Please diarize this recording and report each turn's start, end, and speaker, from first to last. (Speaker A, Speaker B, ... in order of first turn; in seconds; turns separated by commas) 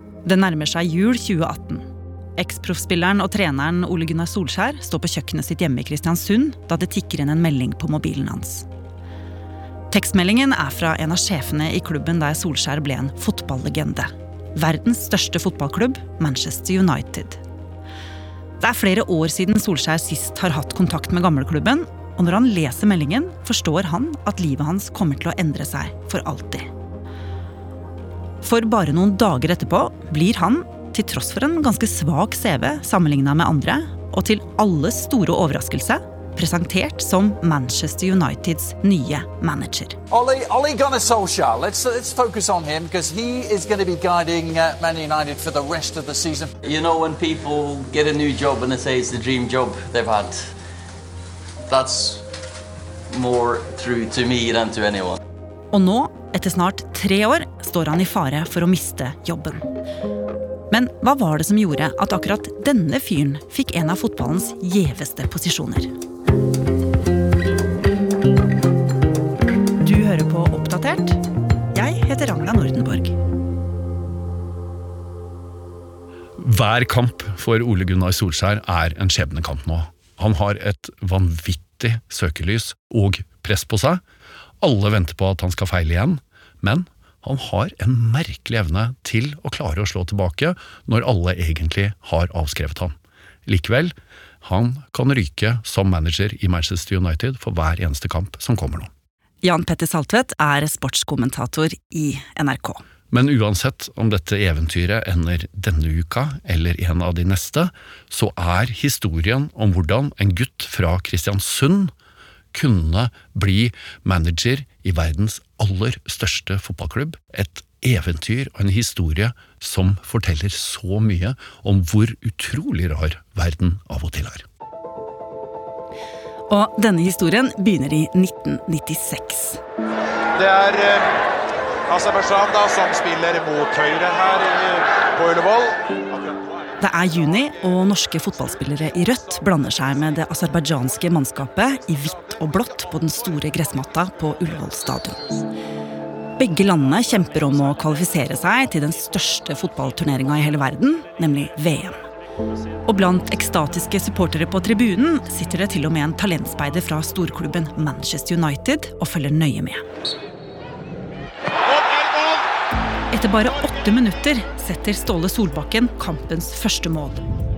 Speaker A: 0.2-8.7, Speaker A: 9.9-17.4, Speaker A: 18.6-26.7, Speaker A: 28.4-40.0, Speaker B: 40.1-46.5, Speaker C: 46.6-50.5, Speaker C: 51.7-52.2, Speaker C: 53.1-55.2, Speaker A: 55.7-59.6, Speaker A: 60.7-65.9, Speaker A: 69.8-71.2, Speaker A: 71.7-73.2, Speaker D: 76.4-84.0, Speaker D: 84.6-92.9, Speaker D: 93.5-98.9, Speaker A: 99.4-102.8, Speaker D: 103.1-111.9, Speaker D: 112.5-124.5, Speaker A: 126.5-129.6, Speaker E: 130.3-131.2, Speaker E: 131.9-136.5, Speaker A: 136.8-145.4, Speaker A: 146.4-152.0, Speaker A: 152.9-159.8, Speaker E: 161.7-162.4, Speaker A: 163.1-167.2